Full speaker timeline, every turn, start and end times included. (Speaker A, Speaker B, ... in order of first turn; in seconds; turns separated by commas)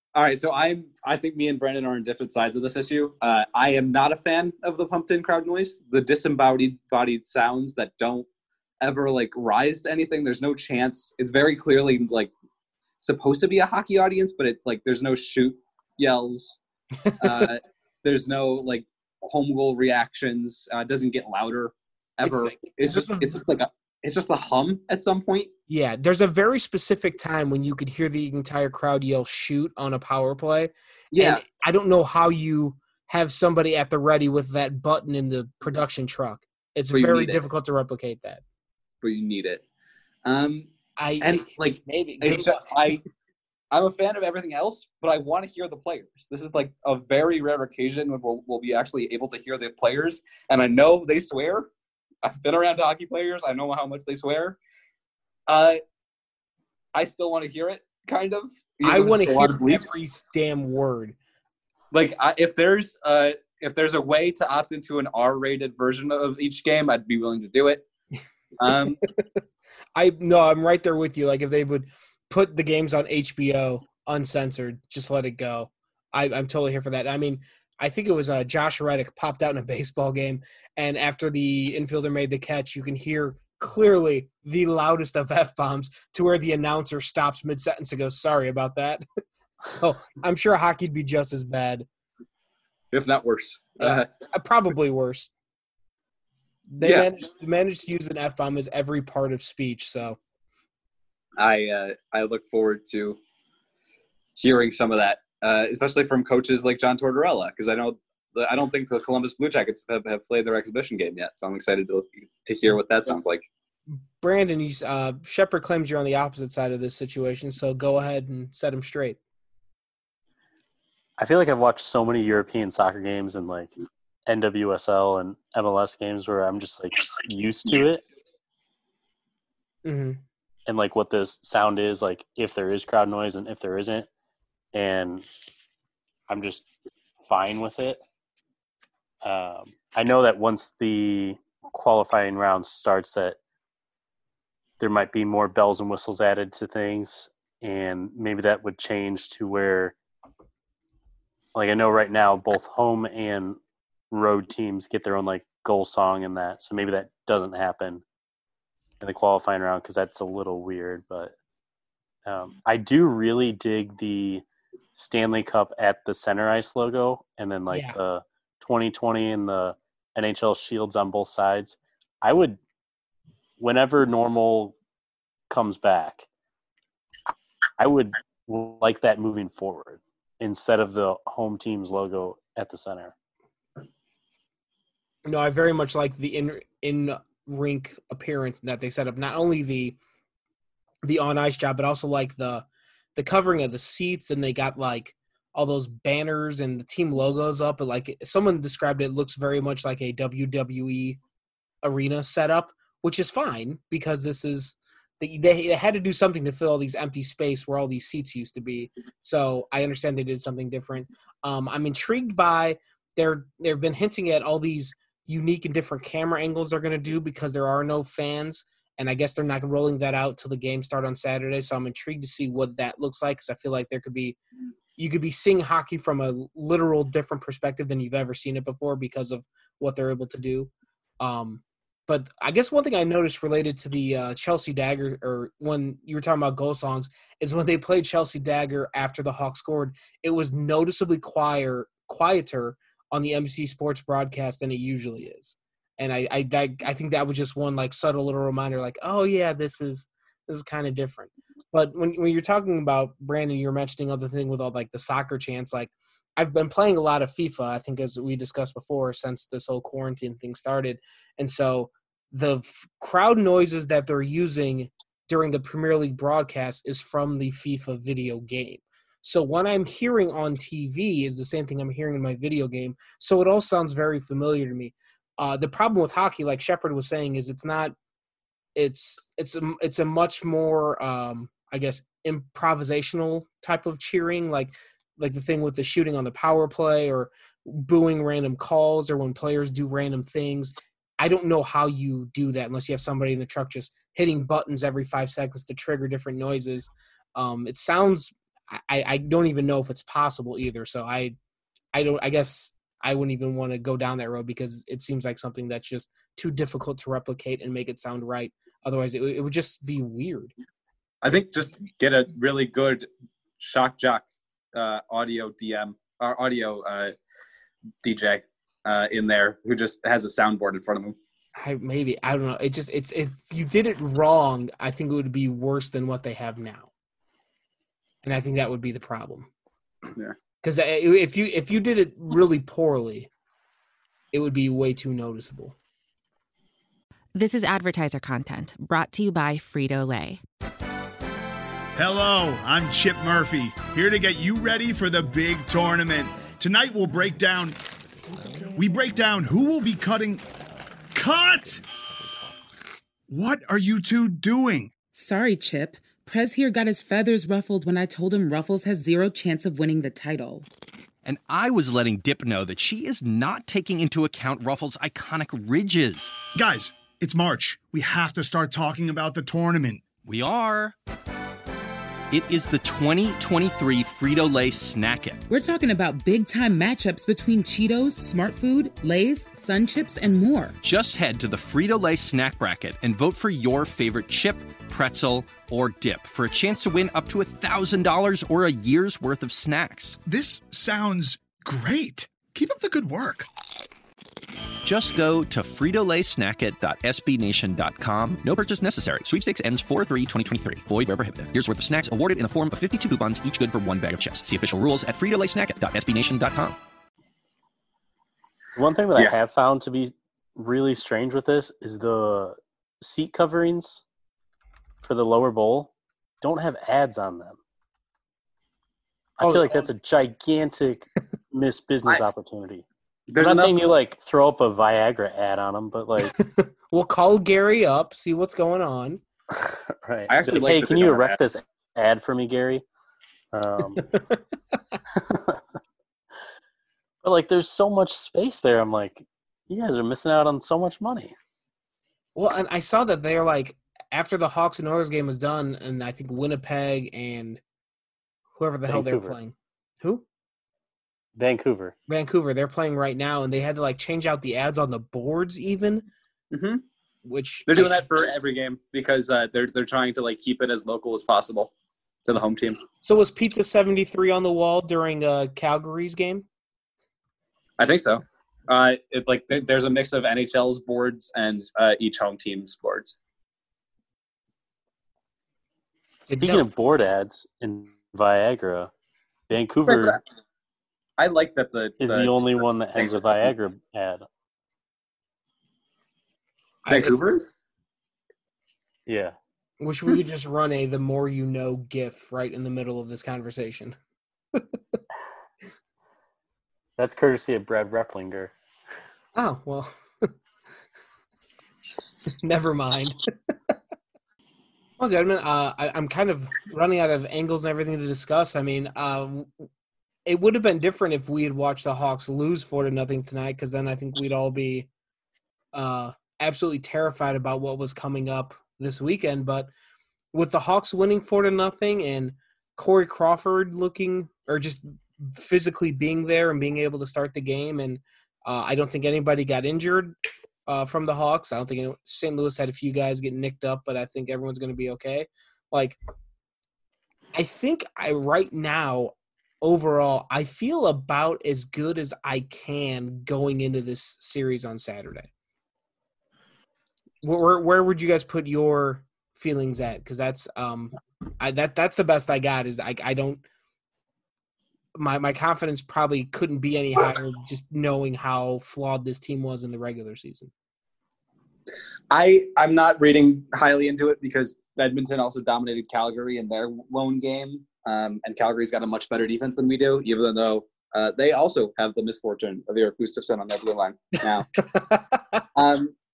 Speaker A: 0.1-8.3, Speaker A: 8.8-12.3, Speaker A: 13.0-16.6, Speaker B: 17.1-17.5, Speaker A: 17.2-25.5, Speaker B: 22.2-23.4, Speaker B: 25.7-38.4, Speaker A: 31.1-31.4, Speaker A: 36.9-37.4, Speaker A: 39.0-39.6, Speaker A: 40.2-43.0, Speaker B: 41.0-42.6, Speaker A: 43.7-51.7, Speaker A: 52.2-54.6, Speaker A: 55.5-55.8, Speaker A: 57.0-60.0, Speaker B: 58.8-61.2, Speaker A: 61.9-67.8, Speaker A: 68.6-69.0, Speaker B: 70.0-89.0, Speaker B: 89.7-91.9, Speaker A: 92.9-94.1, Speaker B: 93.8-95.3, Speaker B: 96.7-100.2, Speaker A: 96.8-97.1, Speaker A: 101.4-103.2, Speaker A: 104.4-113.5, Speaker B: 113.9-119.2, Speaker C: 121.2-128.1, Speaker B: 129.8-130.2, Speaker C: 130.7-134.1, Speaker C: 134.7-135.3, Speaker C: 136.3-136.7, Speaker C: 137.2-138.0, Speaker C: 139.2-143.4, Speaker C: 144.8-149.9, Speaker C: 151.6-153.6, Speaker C: 154.1-158.0, Speaker C: 159.0-161.3, Speaker C: 162.3-164.4, Speaker C: 165.0-172.6, Speaker B: 167.7-168.0, Speaker C: 173.6-174.8, Speaker C: 175.5-176.3, Speaker C: 177.8-183.1, Speaker B: 185.2-190.0, Speaker B: 191.0-201.2, Speaker B: 201.8-224.4, Speaker B: 225.0-277.9, Speaker B: 278.8-301.4, Speaker B: 301.9-310.5, Speaker A: 311.2-313.1, Speaker A: 313.6-317.2, Speaker A: 318.0-321.2, Speaker B: 321.6-326.9, Speaker B: 328.2-329.5, Speaker B: 330.6-333.3, Speaker B: 334.3-335.8, Speaker D: 337.4-340.4, Speaker E: 342.0-347.8, Speaker E: 348.7-350.4, Speaker E: 351.1-351.8, Speaker E: 353.3-354.9, Speaker F: 355.1-360.7, Speaker G: 361.2-366.5, Speaker E: 366.5-370.1, Speaker G: 370.2-371.0, Speaker G: 372.3-375.4, Speaker F: 375.5-380.8, Speaker G: 380.8-390.2, Speaker E: 390.2-393.5, Speaker G: 394.8-406.8, Speaker C: 408.8-414.0, Speaker C: 415.0-417.6, Speaker C: 419.4-426.4, Speaker B: 419.4-419.9, Speaker A: 423.3-423.9, Speaker B: 426.2-429.2, Speaker C: 429.6-432.8, Speaker A: 430.3-431.4, Speaker C: 433.5-434.2, Speaker C: 435.2-435.6, Speaker C: 437.2-441.4, Speaker B: 442.4-447.6, Speaker B: 448.6-450.2, Speaker C: 448.9-449.4, Speaker C: 451.4-451.9, Speaker B: 452.1-456.1, Speaker A: 456.5-456.8, Speaker B: 457.2-458.1, Speaker A: 457.7-461.7, Speaker A: 462.3-462.8, Speaker B: 463.0-466.5, Speaker A: 467.8-473.2, Speaker C: 476.3-478.9, Speaker B: 476.3-476.6, Speaker C: 479.5-480.2, Speaker A: 479.9-480.2, Speaker A: 481.2-482.5, Speaker C: 482.0-484.2, Speaker A: 483.0-483.3, Speaker B: 486.9-487.2, Speaker A: 486.9-487.5, Speaker C: 489.1-489.4, Speaker B: 489.8-494.0, Speaker B: 494.5-495.0, Speaker C: 497.0-498.5, Speaker B: 499.4-500.3, Speaker B: 502.3-503.8, Speaker B: 505.0-509.7, Speaker B: 510.3-514.9, Speaker B: 515.7-519.7, Speaker B: 520.3-530.2, Speaker B: 530.7-536.0, Speaker B: 537.3-545.3, Speaker B: 547.2-553.4, Speaker B: 555.0-560.5, Speaker A: 562.1-574.6, Speaker B: 574.7-575.2, Speaker A: 575.5-575.9